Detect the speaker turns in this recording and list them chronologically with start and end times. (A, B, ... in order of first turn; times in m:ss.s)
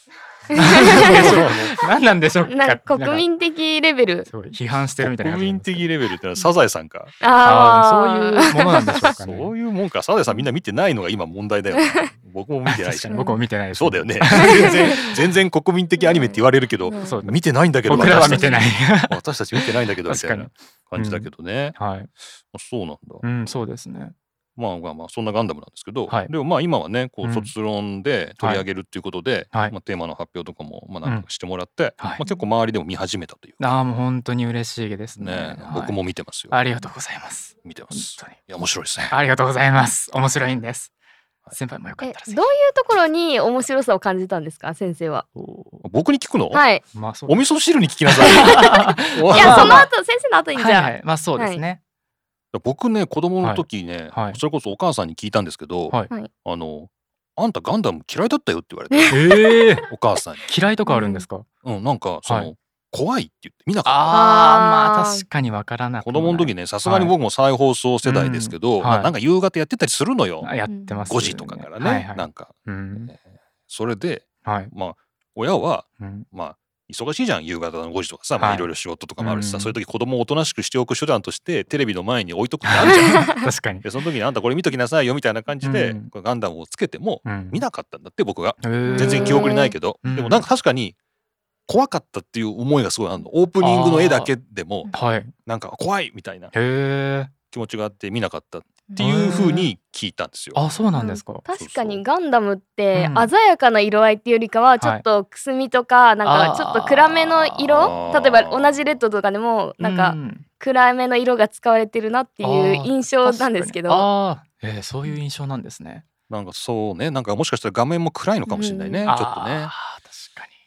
0:00.5-0:01.7 A
0:00.5-0:03.2 B
0:00.9-0:01.8 C
0:02.5-0:04.3 A
0:04.3-0:05.9 B
0:05.0-0:07.1 C
0:07.2-0:09.1 A
0:07.4-0:09.5 B
0:09.2-0:13.2 C
0:11.8-0:12.1 A
0:12.7-0:14.8 B
0:13.1-0:13.4 A
0:13.7-0:21.8 C
0:14.3-0:15.1 A
0:16.0-0:17.2 A
0:17.0-0:22.1 B
0:18.0-0:18.6 A
0:22.5-0:23.2 C
0:23.2-0:24.1 B
0:24.6-0:33.7 C
0:27.2-0:27.5 B
0:33.6-0:36.0 B
0:35.2-0:36.5 C
0:36.5-0:38.4 B
0:37.6-0:39.1 C
0:39.1-0:40.9 B
0:41.5-0:42.5 B
0:42.0-0:45.3 A
0:45.4-0:45.8 B
0:45.8-0:46.6 C
0:46.5-0:46.8 A
0:46.9-0:47.4 B
0:47.3-0:49.9 C
0:48.2-0:49.9 B
0:48.3-0:51.6 A
0:50.5-0:51.8 B
0:52.5-1:00.5 C
0:53.4-0:54.4 B
0:58.9-0:59.2 A
0:59.1-0:59.8 B
1:00.5-1:01.4 B
1:00.9-1:01.2 A
1:01.6-1:04.1 C
1:02.2-1:02.5 B
1:03.8-1:07.1 B
1:04.1-1:05.2 A
1:06.0-1:10.5 C
1:08.0-1:09.1 B
1:10.4-1:13.1 B
1:10.7-1:11.0 A
1:11.1-1:12.6 C
1:13.1-1:31.0 C
1:14.4-1:14.7 B
1:16.0-1:16.2 B
1:18.4-1:19.8 B
1:22.6-1:23.8 B
1:25.6-1:26.1 B
1:27.2-1:27.6 B
1:28.6-1:29.5 B
1:28.9-1:29.7 A
1:30.0-1:30.4 B
1:31.7-1:34.9 C
1:33.6-1:34.3 B
1:34.9-1:35.3 B
1:35.4-1:36.5 C
1:36.5-1:37.3 B
1:37.5-1:40.7 C
1:39.0-1:39.7 B
1:40.5-1:41.4 B
1:41.0-1:54.1 A
1:41.6-1:42.0 C
1:42.9-1:43.3 B
1:46.2-1:47.6 B
1:47.6-1:49.0 C
1:49.8-1:50.4 B
1:52.4-1:56.0 B
1:56.3-1:59.7 C
1:58.5-1:59.1 A
1:59.1-2:00.5 B